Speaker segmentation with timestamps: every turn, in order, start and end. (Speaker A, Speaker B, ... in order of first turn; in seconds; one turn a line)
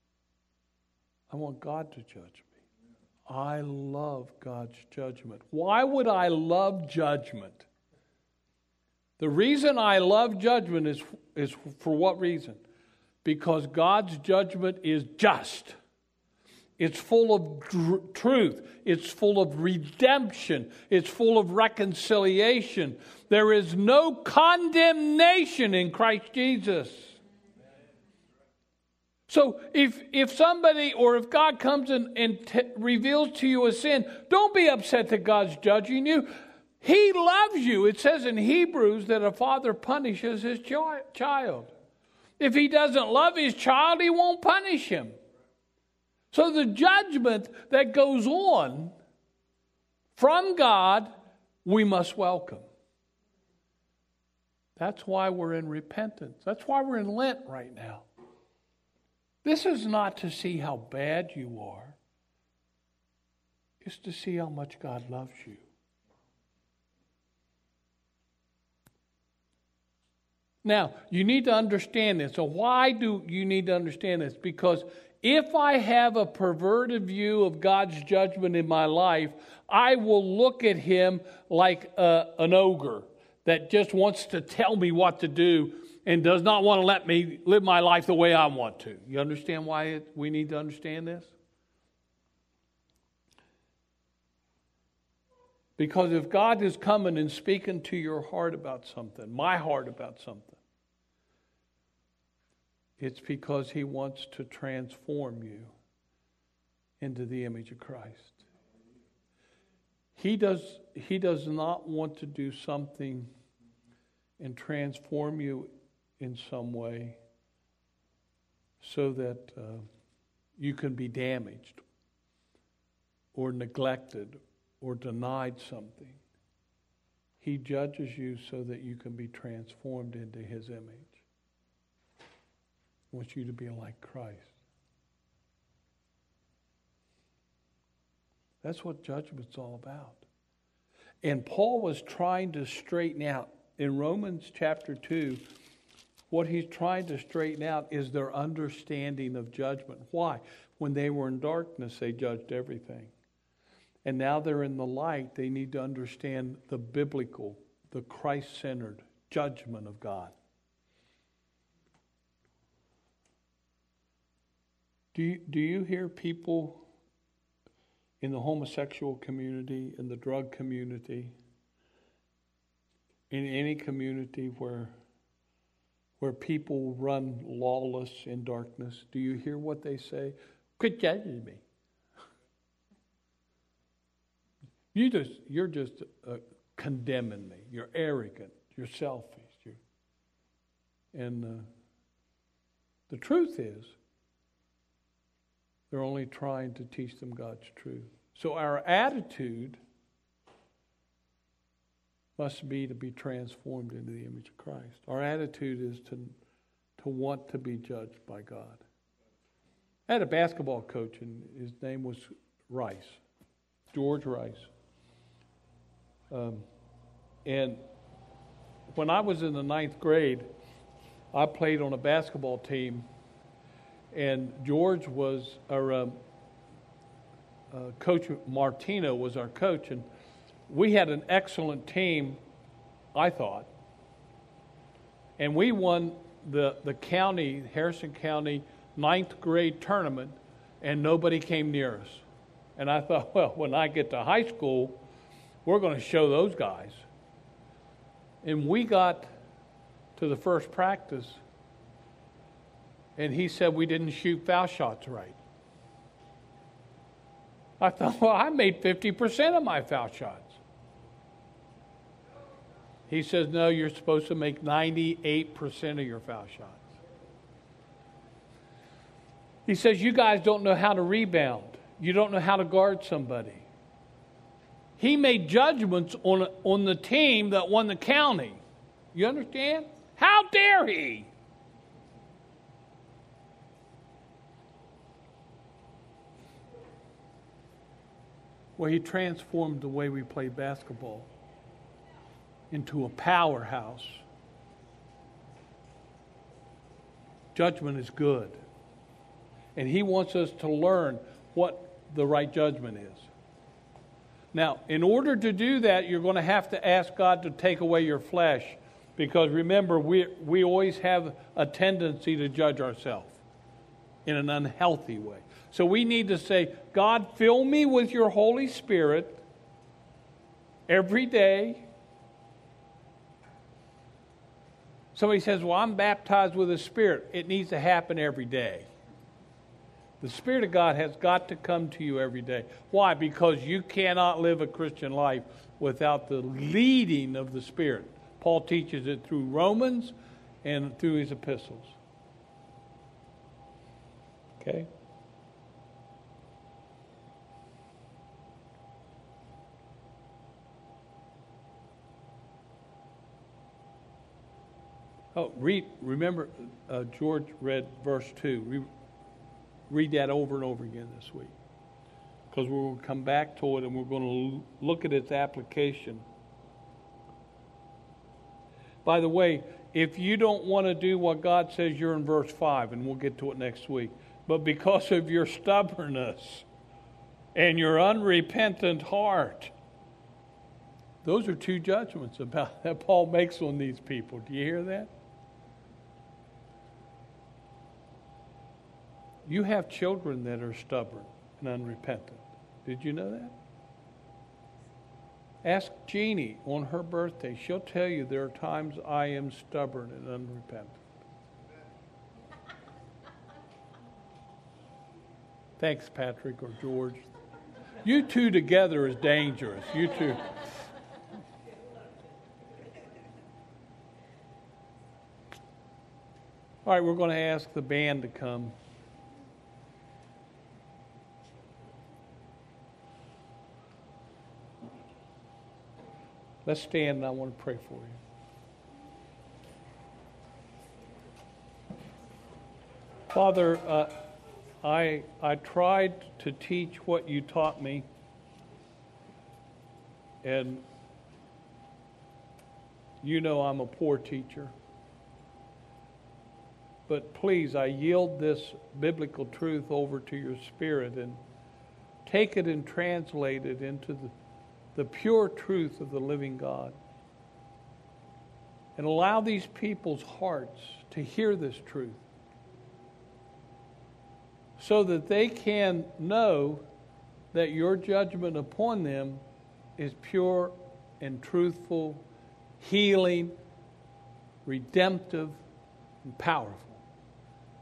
Speaker A: 1.3-2.5
Speaker A: 3.3-7.7
Speaker A: 9.2-12.6
Speaker A: 13.2-15.7
Speaker A: 16.8-27.2
Speaker A: 29.3-41.7
Speaker A: 42.4-45.1
Speaker A: 46.3-48.9
Speaker A: 50.1-51.1
Speaker A: 51.6-52.6
Speaker A: 54.8-58.0
Speaker A: 59.4-62.0
Speaker A: 63.8-65.6
Speaker A: 70.6-91.3
Speaker A: 95.8-100.6
Speaker A: 103.0-105.7
Speaker A: 107.0-108.4
Speaker A: 110.2-113.3
Speaker A: 114.4-117.2
Speaker A: 118.8-119.8
Speaker A: 120.6-121.8
Speaker A: 123.3-126.2
Speaker A: 127.4-131.2
Speaker A: 133.1-134.5
Speaker A: 138.6-140.2
Speaker A: 141.2-145.4
Speaker A: 146.3-153.1
Speaker A: 154.0-160.3
Speaker A: 165.1-166.8
Speaker A: 168.2-171.3
Speaker A: 173.3-174.9
Speaker A: 176.2-181.6
Speaker A: 184.9-189.8
Speaker A: 191.1-191.7
Speaker A: 193.1-193.9
Speaker A: 195.9-199.8
Speaker A: 202.4-206.3
Speaker A: 207.0-208.8
Speaker A: 210.1-213.2
Speaker A: 213.9-214.7
Speaker A: 216.3-216.6
Speaker A: 217.4-217.8
Speaker A: 218.9-220.5
Speaker A: 221.3-223.0
Speaker A: 224.1-226.2
Speaker A: 227.7-230.1
Speaker A: 230.7-232.4
Speaker A: 233.1-233.7
Speaker A: 235.4-242.2
Speaker A: 242.8-245.0
Speaker A: 245.6-247.0
Speaker A: 248.4-249.3
Speaker A: 250.2-251.4
Speaker A: 253.2-255.4
Speaker A: 257.8-260.6
Speaker A: 263.1-266.9
Speaker A: 269.6-273.6
Speaker A: 275.0-278.6
Speaker A: 279.1-281.3
Speaker A: 288.8-291.3
Speaker A: 292.7-294.2
Speaker A: 297.5-298.6
Speaker A: 299.8-303.3
Speaker A: 304.5-313.4
Speaker A: 314.2-319.4
Speaker A: 320.9-321.9
Speaker A: 325.1-328.9
Speaker A: 330.2-342.0
Speaker A: 344.6-344.9
Speaker A: 355.3-358.9
Speaker A: 359.9-361.5
Speaker A: 362.5-366.2
Speaker A: 369.0-376.6
Speaker A: 377.5-379.7
Speaker A: 381.2-385.1
Speaker A: 389.5-393.5
Speaker A: 395.6-401.0
Speaker A: 405.8-407.2
Speaker A: 408.0-410.5
Speaker A: 416.9-418.7
Speaker A: 426.6-428.2
Speaker A: 433.3-434.1
Speaker A: 434.8-438.0
Speaker A: 440.4-440.8
Speaker A: 443.2-444.7
Speaker A: 447.1-451.4
Speaker A: 452.2-454.3
Speaker A: 454.9-456.9
Speaker A: 458.9-462.2
Speaker A: 464.8-466.8
Speaker A: 467.5-469.4
Speaker A: 470.0-472.2
Speaker A: 472.8-473.5
Speaker A: 474.6-475.6
Speaker A: 476.2-477.0